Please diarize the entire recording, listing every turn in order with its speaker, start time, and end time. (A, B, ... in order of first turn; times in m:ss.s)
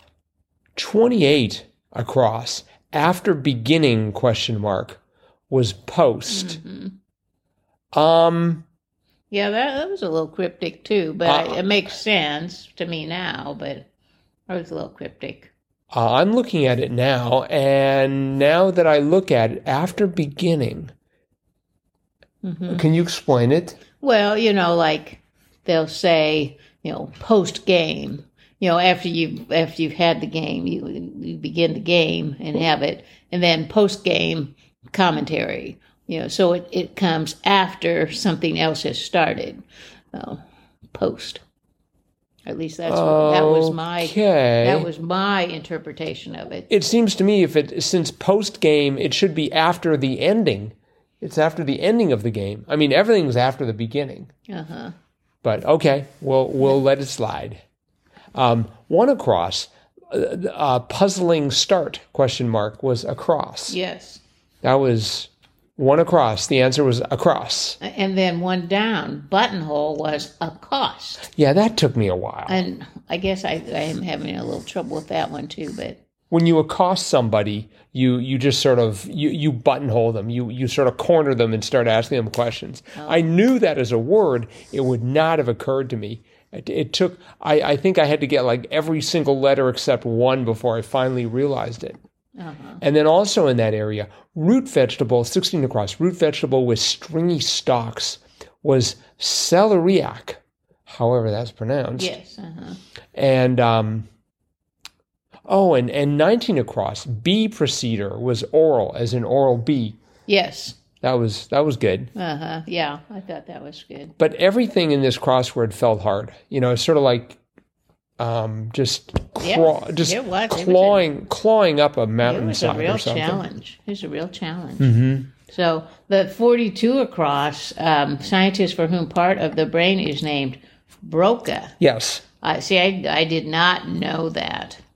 0:00.8-0:06.6 A
0:06.3-0:07.0 B
0:07.9-0:08.6 A
0:09.3-0:13.9 B
0:11.3-0:11.6 A
0:14.5-0:15.5 B
0:15.9-0:20.9 A
0:22.4-0:22.8 B
0:22.7-0:23.8 A
0:24.0-0:41.4 B
0:42.4-0:46.7 B
0:42.9-0:44.9 A
0:46.7-0:54.3 A
0:54.5-0:54.9 B
0:55.4-0:57.6 A
0:58.4-1:03.8 A
1:03.7-1:04.2 B
1:04.6-1:07.8 A
1:07.8-1:11.2 B
1:11.3-1:12.6 A
1:12.5-1:16.0 B
1:16.3-1:32.0 A
1:23.0-1:23.3 B
1:32.4-1:32.8 B
1:32.8-1:42.2 A
1:42.0-1:42.8 B
1:43.2-1:44.1 A
1:45.5-1:50.0 A
1:50.3-1:50.8 B
1:51.0-1:52.1 A
1:52.2-1:54.2 B
1:54.2-1:57.4 A
1:58.2-2:03.4 A
1:59.4-2:01.1 B
2:02.2-2:11.8 B
2:04.8-2:05.3 A
2:11.8-2:12.2 A
2:12.4-2:14.8 B